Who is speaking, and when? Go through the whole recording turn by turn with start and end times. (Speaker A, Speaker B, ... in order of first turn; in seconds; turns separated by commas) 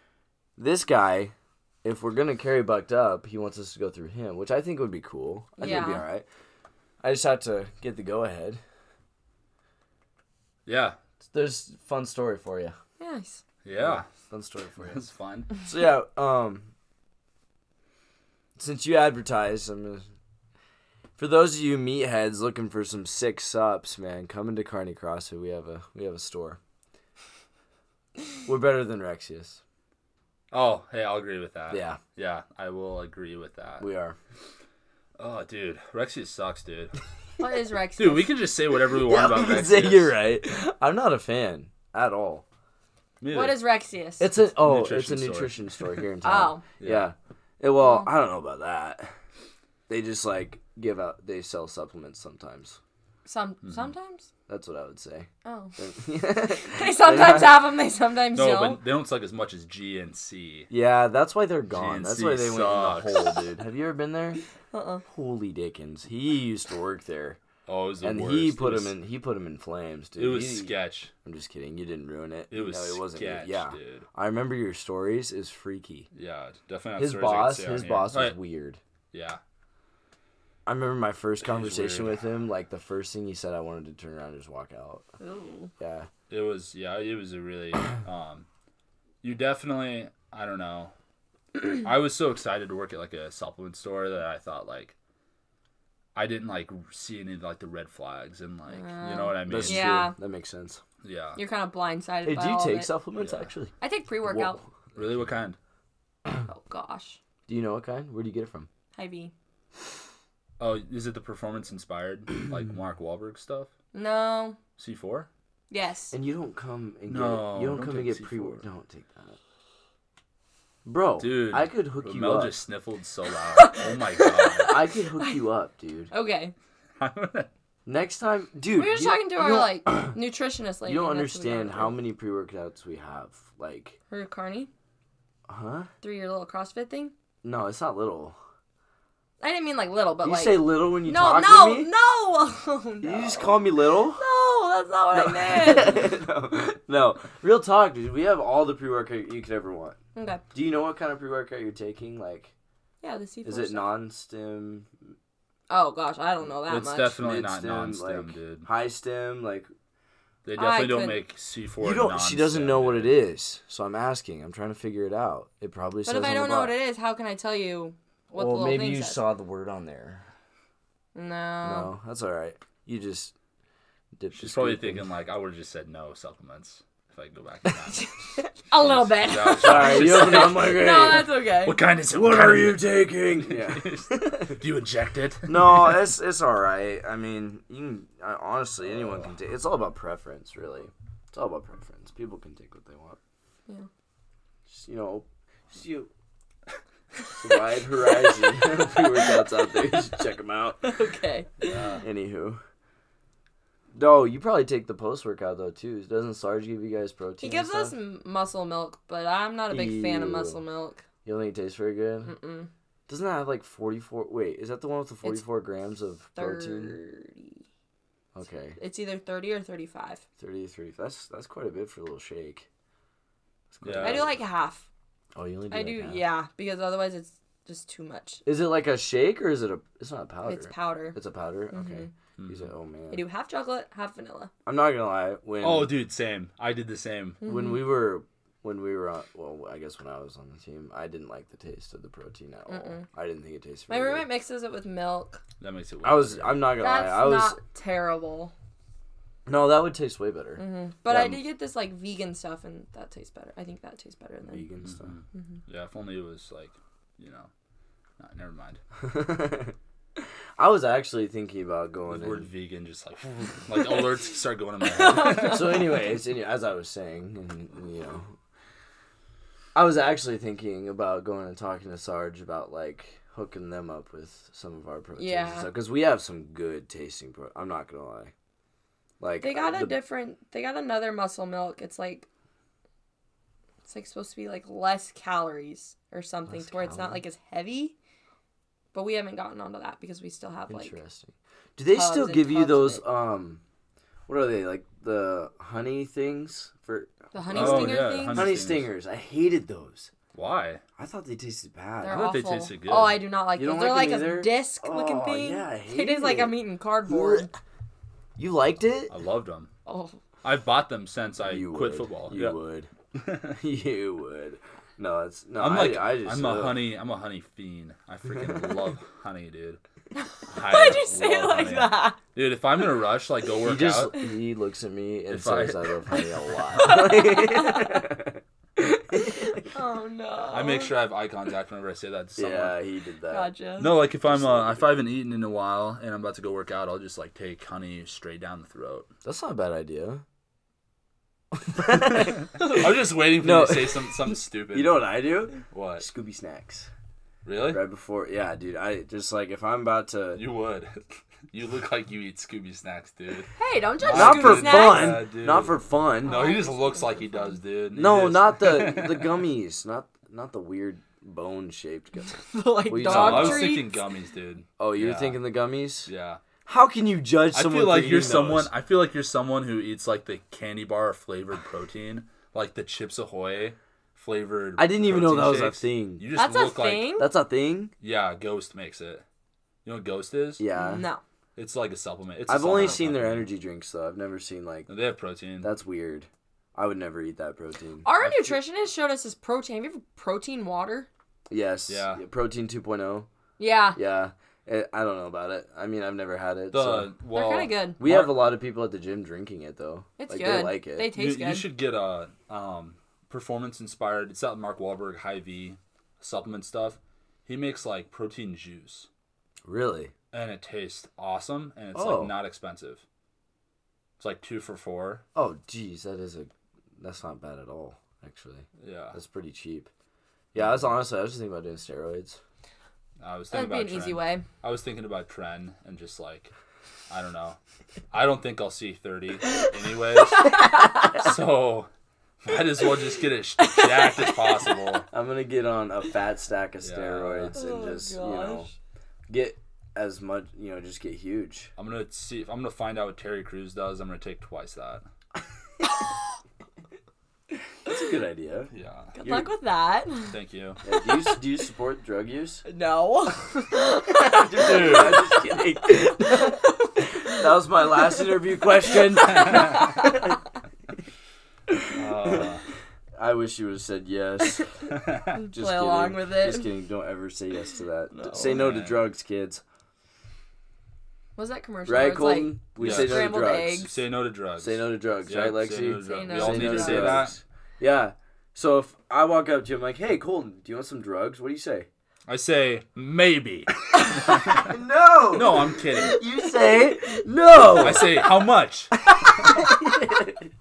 Speaker A: 0.6-6.2, Speaker B: 5.6-6.0, Speaker A: 7.0-8.6, Speaker C: 10.7-11.0, Speaker A: 11.2-12.8, Speaker B: 13.0-13.4, Speaker C: 13.6-14.1, Speaker A: 13.8-15.0, Speaker C: 14.8-15.5, Speaker A: 15.6-16.7, Speaker A: 18.6-20.1, Speaker A: 21.2-26.6, Speaker A: 28.4-29.6, Speaker C: 30.5-33.9, Speaker A: 31.7-32.0, Speaker A: 33.8-34.2, Speaker C: 35.2-36.9, Speaker B: 37.4-38.3, Speaker C: 38.0-40.1, Speaker A: 39.0-42.4, Speaker C: 43.2-43.6, Speaker B: 43.3-44.3, Speaker A: 44.2-49.1, Speaker C: 44.4-45.9, Speaker B: 46.2-46.6, Speaker C: 46.8-47.1, Speaker B: 47.8-48.1, Speaker A: 49.9-52.8, Speaker B: 53.2-54.3, Speaker A: 54.5-57.7, Speaker B: 55.4-55.8, Speaker B: 56.6-58.8, Speaker C: 58.3-60.7, Speaker A: 60.7-64.4, Speaker C: 61.7-63.5, Speaker B: 64.7-65.0, Speaker A: 65.1-67.4, Speaker C: 67.7-69.0, Speaker A: 68.0-76.1, Speaker C: 70.2-71.1, Speaker C: 72.5-74.1, Speaker C: 76.1-78.4, Speaker A: 77.0-78.8, Speaker C: 79.1-79.4, Speaker A: 80.7-85.0, Speaker C: 81.4-82.2, Speaker B: 85.2-85.7, Speaker A: 85.8-86.1, Speaker C: 86.3-88.5, Speaker C: 89.2-90.9, Speaker C: 91.5-94.9, Speaker C: 96.1-100.0, Speaker B: 98.7-100.1, Speaker A: 99.5-100.8, Speaker C: 101.0-101.4, Speaker B: 101.4-102.9, Speaker A: 102.2-103.7, Speaker C: 103.2-103.5, Speaker B: 103.8-104.6, Speaker A: 104.2-104.6, Speaker C: 104.9-105.6, Speaker B: 106.5-107.2, Speaker A: 107.5-108.7, Speaker B: 108.9-109.3, Speaker C: 110.6-113.7, Speaker B: 113.9-114.6, Speaker C: 114.8-115.3, Speaker B: 115.7-116.1, Speaker A: 116.1-119.4, Speaker C: 117.1-118.6, Speaker A: 120.8-122.6, Speaker C: 121.2-124.8, Speaker B: 123.6-125.3, Speaker A: 124.7-126.1, Speaker B: 126.1-126.5, Speaker C: 127.0-127.5, Speaker A: 127.8-130.2, Speaker B: 128.7-132.0, Speaker A: 130.8-134.0, Speaker B: 134.1-134.7, Speaker A: 135.5-135.9, Speaker B: 136.0-137.1, Speaker A: 137.4-138.3, Speaker B: 139.4-146.1, Speaker A: 140.2-141.9, Speaker A: 143.0-144.2, Speaker A: 145.1-150.0, Speaker B: 150.1-150.4, Speaker A: 150.5-152.5, Speaker B: 153.0-153.9, Speaker A: 153.4-154.9, Speaker B: 155.7-157.1, Speaker C: 156.7-158.7, Speaker A: 157.2-159.7, Speaker C: 160.4-163.2, Speaker B: 160.6-161.2, Speaker A: 161.8-166.7, Speaker B: 166.1-169.2, Speaker A: 168.3-170.2, Speaker B: 171.1-171.9, Speaker A: 171.6-173.3, Speaker A: 174.2-175.1, Speaker C: 174.3-178.1, Speaker B: 177.9-181.8, Speaker C: 178.7-186.0, Speaker A: 179.6-181.3, Speaker A: 182.1-184.6, Speaker A: 185.5-193.2, Speaker C: 189.0-189.2, Speaker A: 194.7-196.1, Speaker A: 197.3-200.9, Speaker B: 198.2-198.5, Speaker B: 200.8-201.9, Speaker C: 201.6-202.0, Speaker A: 202.0-202.6, Speaker A: 203.9-207.9, Speaker B: 207.4-211.0, Speaker A: 209.7-210.6, Speaker A: 211.2-212.3, Speaker B: 212.2-212.7, Speaker A: 213.1-217.0, Speaker B: 216.3-217.6, Speaker A: 218.3-218.8, Speaker B: 218.8-220.2, Speaker A: 220.4-222.7, Speaker A: 223.7-224.3, Speaker C: 223.8-224.3, Speaker B: 224.0-224.8, Speaker A: 225.3-226.2, Speaker B: 225.7-228.4, Speaker A: 228.4-233.2, Speaker B: 230.4-231.2, Speaker B: 231.7-232.1, Speaker C: 232.4-232.7, Speaker B: 233.1-234.5, Speaker A: 234.7-235.9, Speaker C: 235.6-237.4, Speaker B: 237.4-237.8, Speaker A: 237.4-244.2, Speaker B: 242.7-243.1, Speaker B: 243.9-245.4, Speaker C: 245.6-246.7, Speaker A: 246.0-247.6, Speaker B: 246.8-248.5, Speaker A: 249.4-251.4, Speaker B: 250.6-254.7, Speaker A: 254.5-255.1, Speaker C: 254.8-257.5, Speaker C: 258.2-258.8, Speaker A: 259.0-259.7, Speaker A: 260.6-262.5, Speaker C: 262.1-265.8, Speaker B: 264.9-265.9, Speaker A: 265.3-268.3, Speaker A: 269.7-278.3, Speaker B: 275.2-275.7, Speaker A: 279.2-280.0, Speaker B: 279.4-282.3, Speaker B: 283.8-287.9, Speaker A: 286.5-287.2, Speaker B: 288.9-290.9, Speaker A: 290.7-293.6, Speaker B: 291.9-293.0, Speaker A: 294.3-300.1, Speaker B: 297.3-298.6, Speaker C: 297.5-298.9, Speaker C: 300.3-300.8, Speaker A: 301.0-302.2, Speaker B: 302.0-307.5, Speaker C: 302.1-303.2, Speaker A: 303.6-307.5, Speaker A: 308.4-309.1, Speaker C: 309.1-309.7, Speaker B: 309.9-310.2, Speaker C: 310.4-312.6, Speaker A: 311.4-316.8, Speaker C: 315.6-319.8, Speaker B: 320.2-322.2, Speaker C: 320.5-324.1, Speaker A: 323.6-328.4, Speaker C: 325.3-326.2, Speaker C: 326.7-327.0, Speaker B: 326.8-328.1, Speaker A: 329.1-329.4, Speaker B: 329.1-330.9, Speaker C: 330.5-332.8, Speaker A: 332.4-333.5, Speaker B: 333.3-334.0, Speaker C: 333.8-339.1, Speaker A: 334.2-335.0, Speaker A: 339.2-340.2, Speaker A: 341.5-346.9, Speaker C: 342.5-345.1, Speaker C: 345.7-346.1, Speaker C: 347.4-347.8, Speaker A: 347.7-350.4, Speaker C: 350.4-359.4, Speaker B: 353.6-355.2, Speaker A: 354.1-356.4, Speaker B: 356.2-357.6, Speaker A: 357.9-362.3, Speaker B: 362.3-364.0, Speaker A: 362.9-363.8, Speaker C: 363.0-365.4, Speaker A: 364.8-366.1, Speaker C: 366.1-366.4, Speaker A: 366.6-368.7, Speaker C: 367.5-377.2, Speaker A: 374.8-376.3, Speaker B: 376.3-377.3, Speaker A: 377.2-377.9, Speaker C: 378.0-379.2, Speaker C: 379.8-380.6, Speaker A: 380.6-381.1, Speaker B: 380.7-381.2, Speaker C: 381.6-383.5, Speaker A: 382.4-384.9, Speaker C: 384.9-385.7, Speaker A: 385.6-388.1, Speaker B: 388.0-391.1, Speaker A: 391.5-393.3, Speaker C: 391.9-392.2, Speaker B: 393.6-394.0, Speaker A: 393.9-397.1, Speaker C: 396.7-398.4, Speaker B: 397.3-398.0, Speaker A: 398.0-401.1, Speaker B: 400.2-401.7, Speaker C: 401.1-409.1, Speaker A: 409.6-410.1, Speaker C: 410.3-413.0, Speaker A: 411.9-412.4, Speaker C: 414.2-415.2, Speaker A: 415.3-419.9, Speaker C: 418.8-419.2, Speaker A: 420.5-422.4, Speaker C: 423.2-426.5, Speaker B: 423.5-424.4, Speaker C: 427.1-427.6, Speaker C: 428.1-430.5, Speaker B: 430.3-431.1, Speaker C: 431.1-431.9, Speaker C: 432.4-435.1, Speaker B: 433.6-434.3, Speaker A: 435.1-438.7, Speaker C: 436.8-437.6, Speaker B: 437.5-438.7, Speaker A: 439.3-441.7, Speaker C: 441.8-445.0, Speaker A: 447.8-449.5, Speaker C: 448.7-449.1, Speaker B: 449.1-450.4, Speaker C: 450.3-450.8, Speaker A: 450.8-452.6, Speaker B: 452.6-457.4, Speaker A: 454.1-456.6, Speaker C: 454.6-455.2, Speaker A: 457.2-460.3, Speaker B: 459.2-460.1, Speaker C: 461.9-462.6, Speaker A: 462.2-462.5, Speaker A: 463.1-464.7, Speaker C: 464.9-465.3, Speaker B: 465.3-466.7, Speaker A: 465.5-469.6, Speaker C: 468.2-469.1, Speaker B: 471.4-473.9, Speaker A: 471.9-473.9, Speaker C: 472.8-477.4, Speaker A: 474.6-481.9, Speaker B: 476.0-477.3, Speaker C: 482.3-484.7, Speaker A: 484.5-488.3, Speaker C: 485.3-486.2, Speaker C: 487.6-488.9, Speaker A: 489.1-490.5